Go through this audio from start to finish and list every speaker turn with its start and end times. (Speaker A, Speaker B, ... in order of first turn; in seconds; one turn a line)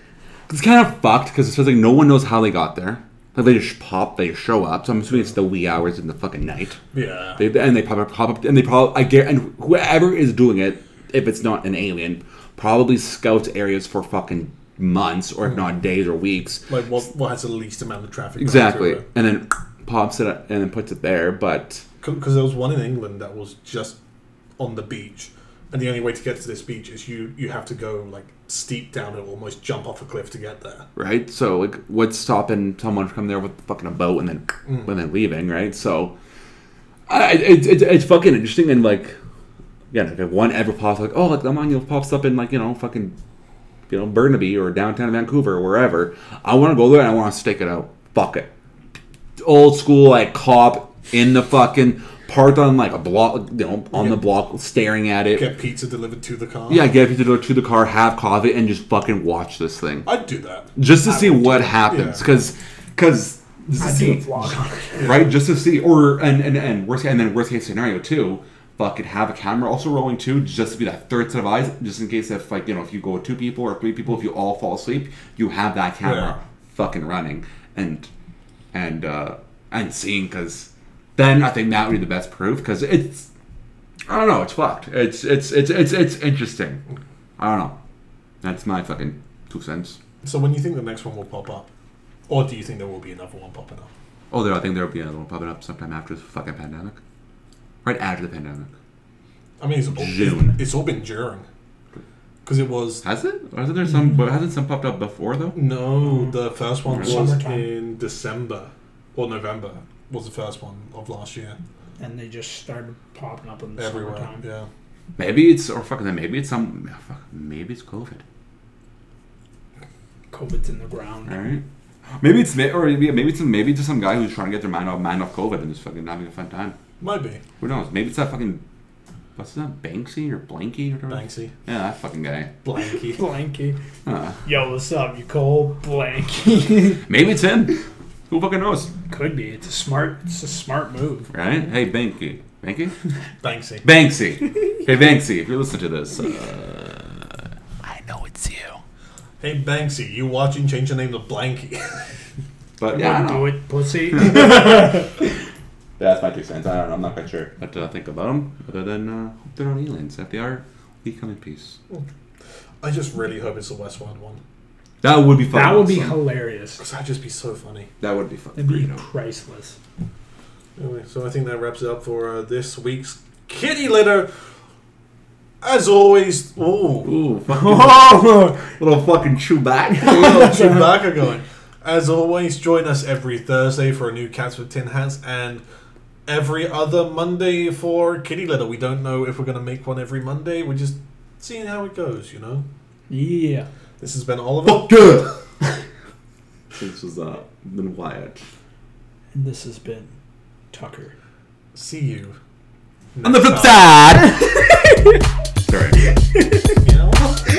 Speaker A: 0.5-6.8
Speaker B: 6.9-7.4
Speaker A: 7.4-16.6
Speaker B: 16.7-19.0
Speaker A: 18.4-21.8
Speaker B: 22.0-24.0
Speaker B: 24.6-30.9
Speaker A: 30.9-36.1
Speaker A: 37.1-39.1
Speaker A: 39.9-43.1
Speaker A: 43.9-48.5
Speaker A: 49.4-55.5
Speaker B: 53.9-54.2
Speaker B: 55.3-56.9
Speaker A: 56.7-60.1
Speaker B: 60.0-60.7
Speaker A: 60.8-78.1
Speaker C: 61.0-61.7
Speaker B: 61.8-62.2
Speaker C: 63.8-65.0
Speaker B: 65.0-65.3
Speaker B: 76.0-76.3
Speaker A: 78.7-83.3
Speaker A: 84.1-86.8
Speaker A: 87.4-87.8
Speaker A: 88.4-90.0
Speaker B: 90.2-91.7
Speaker B: 92.3-93.9
Speaker A: 94.3-97.0
Speaker A: 97.8-98.7
Speaker B: 99.6-101.5
Speaker A: 100.0-100.6
Speaker B: 102.4-103.0
Speaker A: 103.0-105.6
Speaker B: 105.5-111.6
Speaker A: 106.9-107.2
Speaker C: 106.9-107.7
Speaker C: 112.0-114.4
Speaker B: 113.8-114.7
Speaker A: 115.2-118.2
Speaker C: 120.3-121.4
Speaker A: 121.2-121.6
Speaker A: 122.2-126.8
Speaker B: 127.0-127.4
Speaker A: 127.6-128.6
Speaker A: 129.3-132.5
Speaker B: 131.1-131.5
Speaker B: 132.6-133.2
Speaker C: 132.9-133.8
Speaker A: 134.0-134.4
Speaker C: 134.4-137.0
Speaker A: 137.0-138.9
Speaker C: 139.1-141.3
Speaker A: 141.3-142.9
Speaker B: 143.4-143.8
Speaker A: 143.8-148.8
Speaker B: 149.4-152.0
Speaker A: 152.8-153.6
Speaker C: 152.9-155.1
Speaker A: 154.1-154.9
Speaker A: 156.0-161.8
Speaker B: 162.8-164.4
Speaker A: 165.0-166.2
Speaker C: 165.5-166.8
Speaker B: 166.8-167.9
Speaker A: 168.0-169.0
Speaker C: 168.6-169.8
Speaker B: 170.8-174.3
Speaker B: 175.6-177.1
Speaker A: 177.0-180.6
Speaker C: 177.5-178.6
Speaker B: 180.0-185.6
Speaker C: 180.2-180.6
Speaker B: 186.3-192.6
Speaker C: 193.1-193.7
Speaker B: 194.0-195.3
Speaker A: 194.6-195.3
Speaker A: 196.7-198.4
Speaker C: 199.3-200.1
Speaker C: 200.7-201.1
Speaker B: 201.7-202.4
Speaker B: 203.1-203.9
Speaker A: 203.2-204.5
Speaker C: 204.2-205.2
Speaker A: 205.7-206.1
Speaker C: 206.3-206.7
Speaker B: 206.8-207.4